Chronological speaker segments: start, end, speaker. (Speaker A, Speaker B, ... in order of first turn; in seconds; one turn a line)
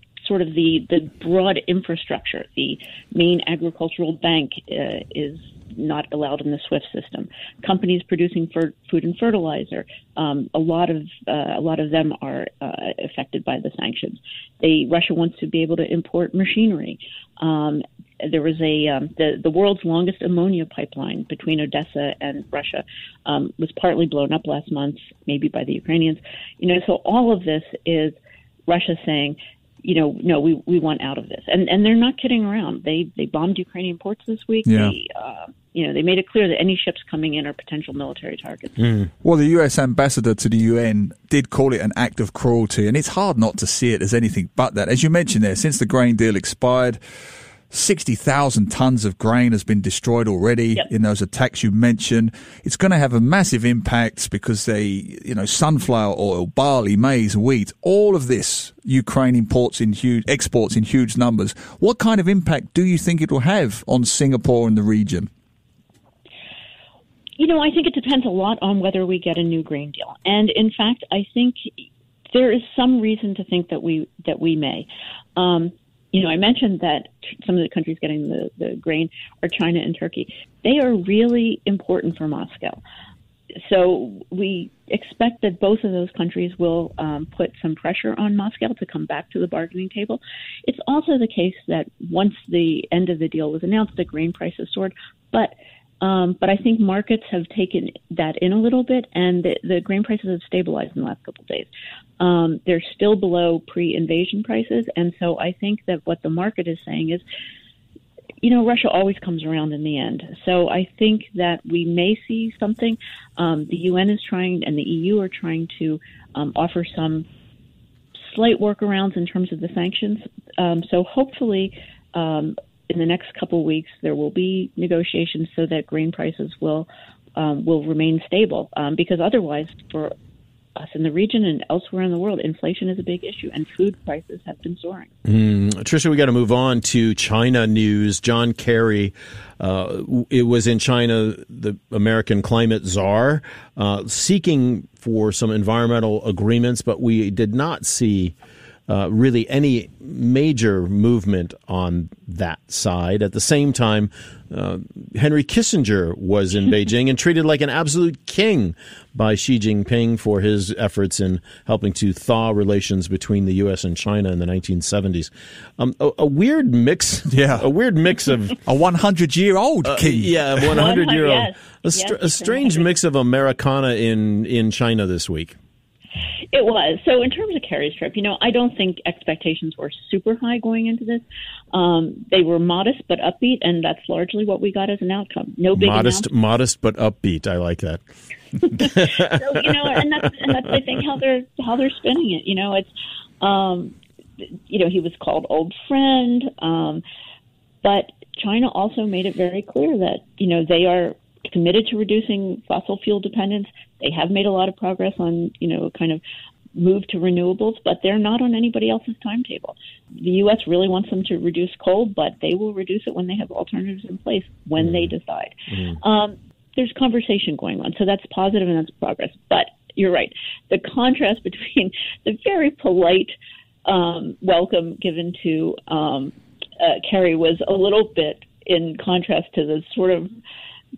Speaker A: 0.2-38.9
Speaker B: 34.7-34.9
Speaker C: 38.8-39.1
Speaker B: 39.2-47.0
Speaker B: 47.7-65.3
Speaker A: 67.4-71.7
Speaker A: 72.3-82.8
Speaker A: 83.6-107.2
Speaker A: 108.4-117.3
Speaker A: 118.2-130.1
Speaker A: 130.8-135.1
Speaker C: 135.2-148.3
Speaker C: 148.9-168.6
Speaker B: 167.3-167.7
Speaker B: 168.7-170.8
Speaker C: 169.8-175.6
Speaker A: 170.7-172.9
Speaker A: 176.5-186.3
Speaker C: 185.8-188.0
Speaker C: 188.7-189.4
Speaker A: 188.7-192.9
Speaker A: 193.4-193.9
Speaker A: 194.7-197.0
Speaker A: 197.8-206.2
Speaker A: 206.8-230.3
Speaker C: 214.8-215.1
Speaker C: 215.7-216.0